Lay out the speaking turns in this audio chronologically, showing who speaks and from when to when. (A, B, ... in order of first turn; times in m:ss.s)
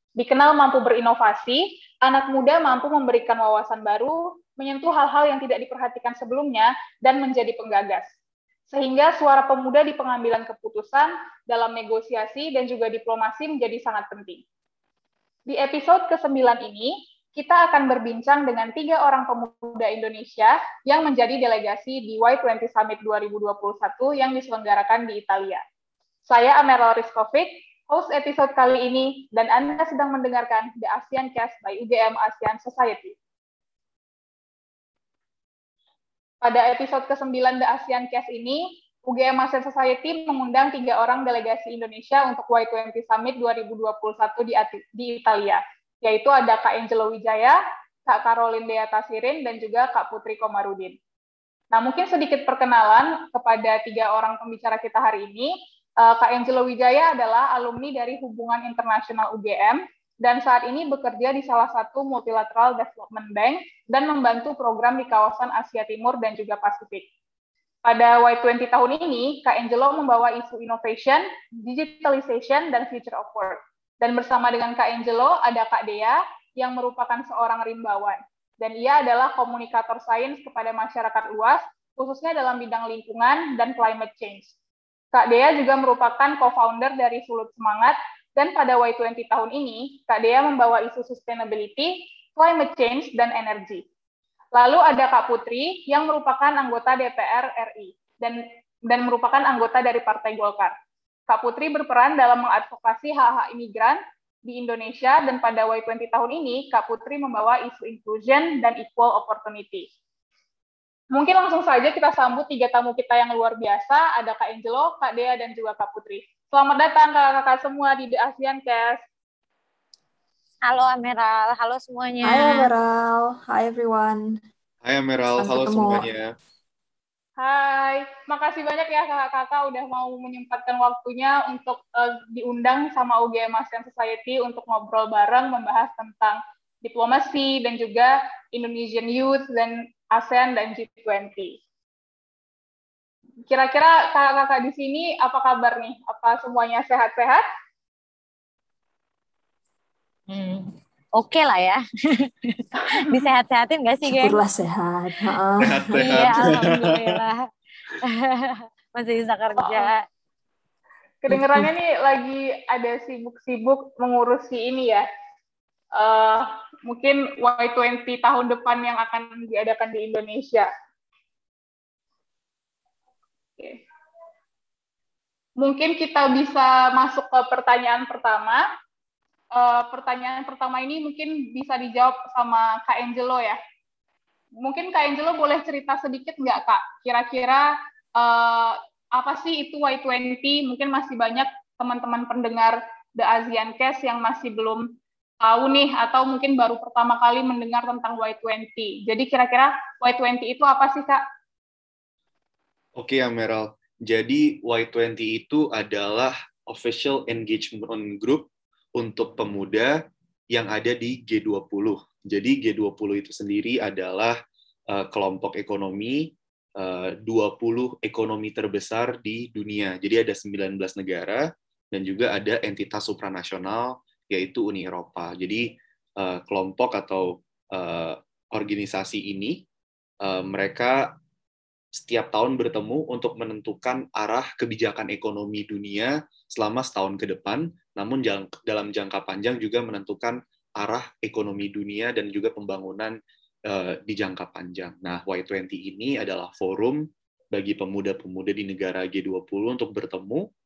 0:00.2-0:08.1 A
0:08.7-0:14.4 A
0:15.5-0:25.6 A
0:26.3-0:33.1 A
0:36.4-0:51.0 A
0:51.7-1:07.0 A
1:07.8-1:24.5 A
1:25.1-1:33.8 A
1:34.6-1:40.7 A
1:41.3-1:49.9 A
1:51.1-1:59.0 A
2:00.6-2:02.7 B
2:02.2-2:04.4 C
2:04.8-2:06.4 D
2:05.3-2:06.1 C
2:07.4-2:21.6 A
2:23.5-2:27.4 A
2:30.3-2:34.4 B
2:34.1-2:36.2 C
2:35.6-2:37.2 D
2:36.0-2:37.5 B
2:38.0-2:40.0 B
2:39.6-2:39.9 A
2:41.2-2:45.0 A
2:41.3-2:41.7 C
2:46.0-2:50.7 A
2:55.6-2:58.6 A
2:59.5-3:03.6 A
3:04.6-3:14.8 A
3:15.4-3:21.2 A
3:23.0-3:30.0 D
3:30.5-3:34.4 D
3:34.9-3:49.6 D
3:50.2-3:51.1 D
3:52.0-4:10.5 D